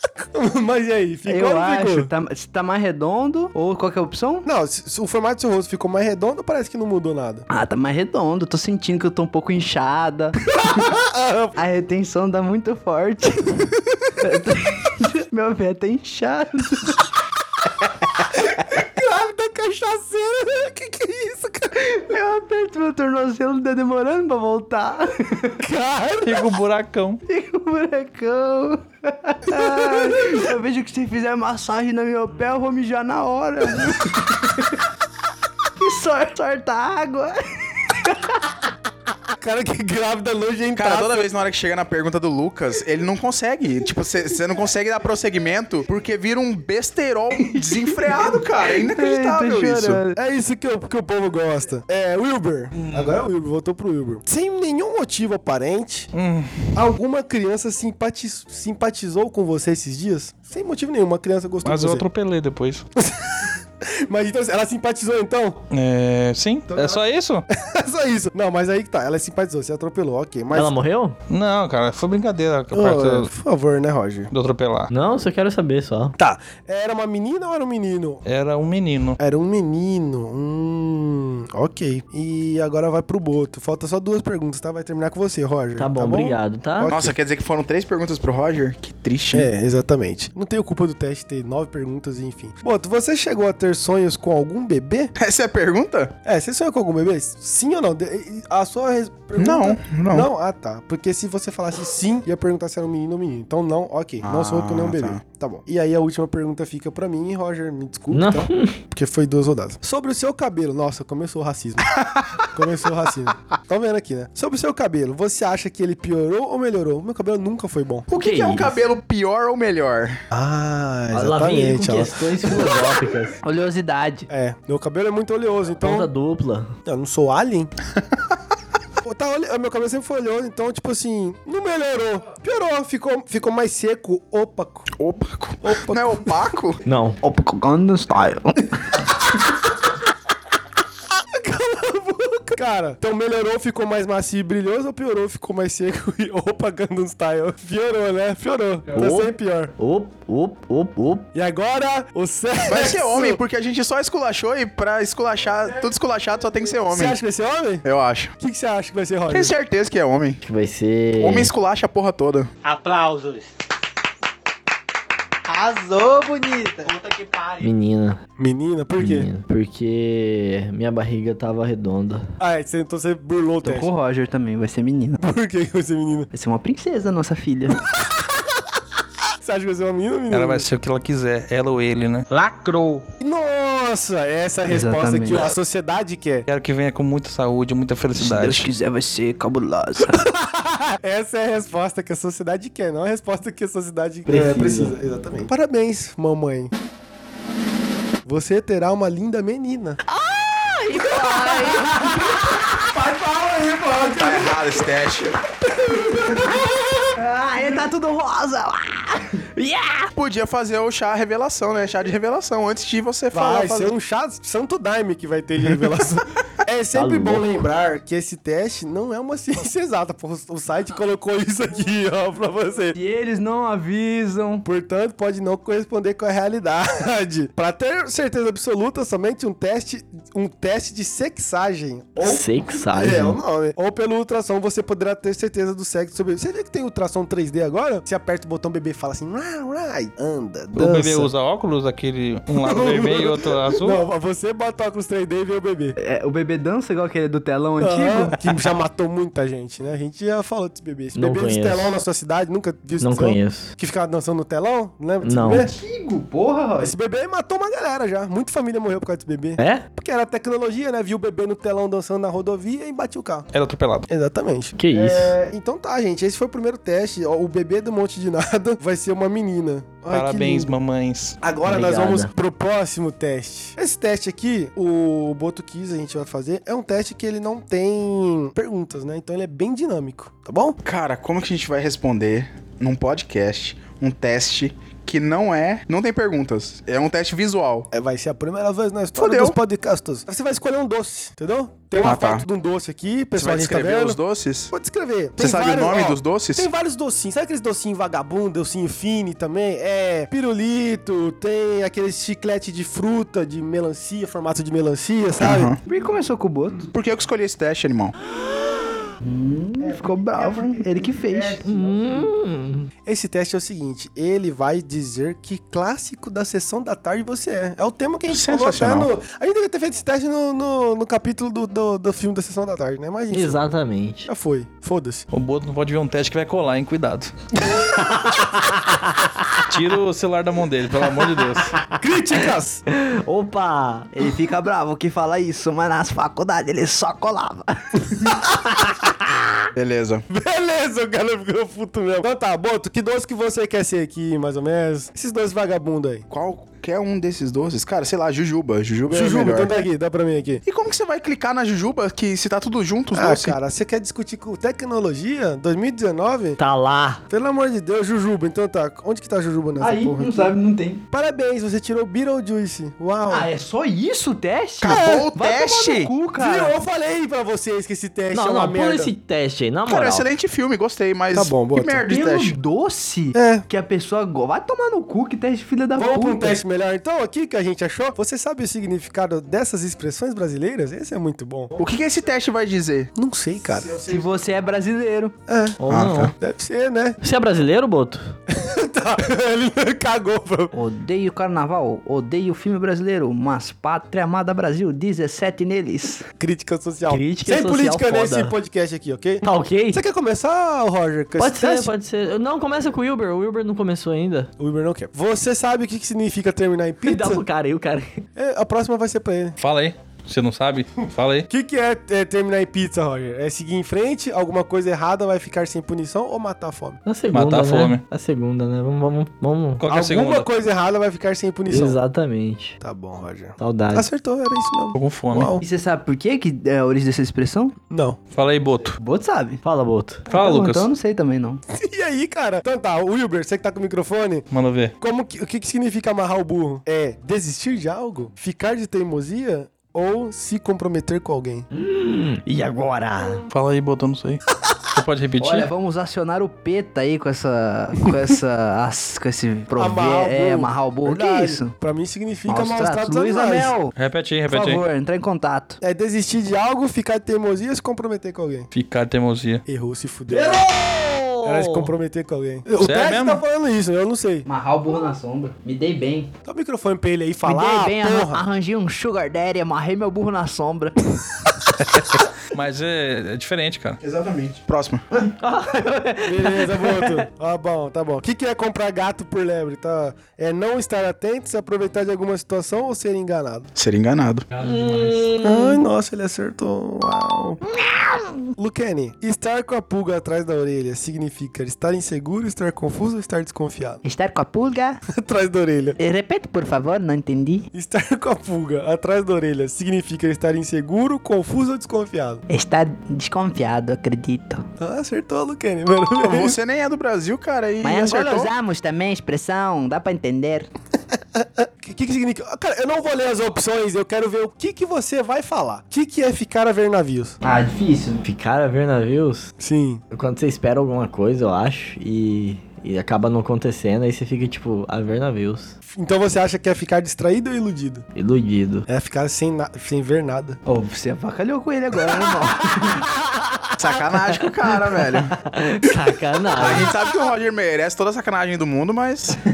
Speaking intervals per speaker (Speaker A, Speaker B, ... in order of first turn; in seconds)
Speaker A: 0.3-2.1, 4.4-7.5, 10.6-11.6, 18.5-21.8, 25.6-26.5, 29.5-30.4, 39.3-41.3, 50.1-56.1, 56.7-62.0, 63.0-65.6, 66.7-70.8, 72.7-74.3, 76.2-78.2, 79.2-87.1, 89.3-95.1, 96.2-118.0, 120.3-122.9, 124.3-126.1, 126.9-127.7, 129.0-134.9, 135.6-136.4, 141.3-149.7, 151.3-153.4, 156.9-157.8, 158.4-159.5, 168.4-169.3, 172.4-173.9, 175.2-176.3, 177.9-178.4, 179.4-180.7, 183.2-186.4, 190.2-196.7, 198.2-200.0, 200.9-204.7, 205.8-207.1, 213.3-222.9, 224.6-241.3, 242.6-245.9, 247.8-255.7, 256.8-263.5, 264.1-270.8, 271.4-280.8, 287.9-294.2, 294.7-305.8, 309.8-312.3, 313.0-323.6, 324.2-325.2, 327.7-328.3, 331.9-332.8, 340.3-346.2, 349.1-350.6, 353.1-356.6, 357.3-360.5, 361.1-363.5, 364.9-365.3, 366.4-369.1, 371.3-372.0, 373.3-373.6, 375.9-381.7, 383.1-384.1, 385.5-385.8, 386.4-387.2, 388.5-390.7, 396.4-401.9, 404.6-407.4, 408.4-409.6, 411.5-417.0, 419.9-422.0, 422.8-425.6, 427.9-428.2, 431.7-434.4, 435.0-441.6, 449.7-453.7, 455.8-458.7, 459.7-460.7, 461.4-464.4, 466.4-468.4, 476.2-483.7, 485.4-487.6, 488.6-494.0, 495.1-496.0, 497.7-502.4, 504.8-506.6, 511.2-517.4, 519.6-520.0, 525.9-528.0, 528.9-530.6
Speaker B: 1.2-4.5, 7.5-10.9, 11.6-17.0, 21.7-25.6, 27.3-34.8, 35.8-38.4, 47.4-50.2, 123.4-124.3, 137.2-139.0, 165.5-167.3, 173.6-175.2, 176.3-177.8, 184.7-185.5, 188.2-190.3, 200.1-202.6, 207.1-209.4, 222.9-224.6, 246.0-248.4, 255.7-256.9, 305.9-306.9, 309.2-311.6, 334.1-338.4, 359.8-361.0, 363.3-366.8, 372.1-376.6, 384.0-385.4, 390.7-396.3, 425.6-427.8, 429.0-429.6, 430.3-431.6, 445.4-451.7, 452.5-453.9, 454.5-455.8, 464.4-466.3, 467.4-471.2, 475.2-477.1, 494.0-495.0, 496.0-497.7, 502.5-504.6, 507.8-510.7, 517.4-518.2, 530.6-533.1
Speaker C: 26.2-27.2, 52.8-53.1, 56.1-56.7, 61.6-62.9, 65.7-67.5, 71.3-73.3, 74.3-74.9, 78.2-79.2, 180.3-182.3, 186.5-188.7, 240.8-244.0, 263.5-264.1, 270.1-271.4, 325.3-327.3, 329.6-331.8, 409.6-411.5, 417.3-418.0, 419.8-420.5, 424.9-425.5, 428.3-429.0, 430.3-430.9, 434.5-434.9, 443.5-445.7, 453.9-454.8, 458.7-459.6, 462.8-463.4, 472.5-474.0, 484.7-485.2
Speaker D: 40.8-50.0, 86.9-89.5, 95.2-96.1, 99.4-100.3, 104.2-105.2, 111.9-112.4, 118.1-120.2, 135.0-136.8, 152.6-157.2, 157.8-158.3, 159.3-160.4, 161.2-162.5, 204.2-205.4, 210.1-213.9, 280.8-287.9, 289.1-289.6, 292.0-292.4, 293.4-294.7, 295.4-296.7, 305.4-305.8, 306.9-308.1, 318.3-319.1, 339.7-340.2, 346.3-349.7, 350.6-353.6, 364.8-366.1, 369.9-372.6, 381.8-383.1, 385.9-386.3, 474.0-475.1, 483.7-484.5, 506.2-508.5, 533.8-535.4, 536.6-539.4
Speaker E: 70.5-71.2, 74.9-76.1, 85.8-86.9, 108.1-108.8, 118.1-118.8, 121.1-123.4, 125.8-126.7, 136.8-137.2, 148.9-151.3, 160.4-161.5, 167.6-168.2, 169.0-172.3, 194.3-194.9, 209.6-210.1, 216.9-217.6, 232.2-233.4, 251.1-251.9, 253.0-253.7, 255.2-255.7, 259.6-259.9, 264.8-265.4, 271.6-272.3, 311.6-312.9, 323.3-324.3, 332.9-334.1, 356.6-357.2, 368.3-370.3, 385.8-386.3, 387.2-388.3, 397.1-398.5, 399.4-400.0, 401.4-404.5, 407.0-408.2, 417.1-419.8, 421.7-422.8, 423.6-424.1, 429.6-430.2, 441.7-443.4, 460.3-461.9, 484.6-485.8, 518.2-519.5, 520.1-525.7, 528.1-528.9, 535.4-536.9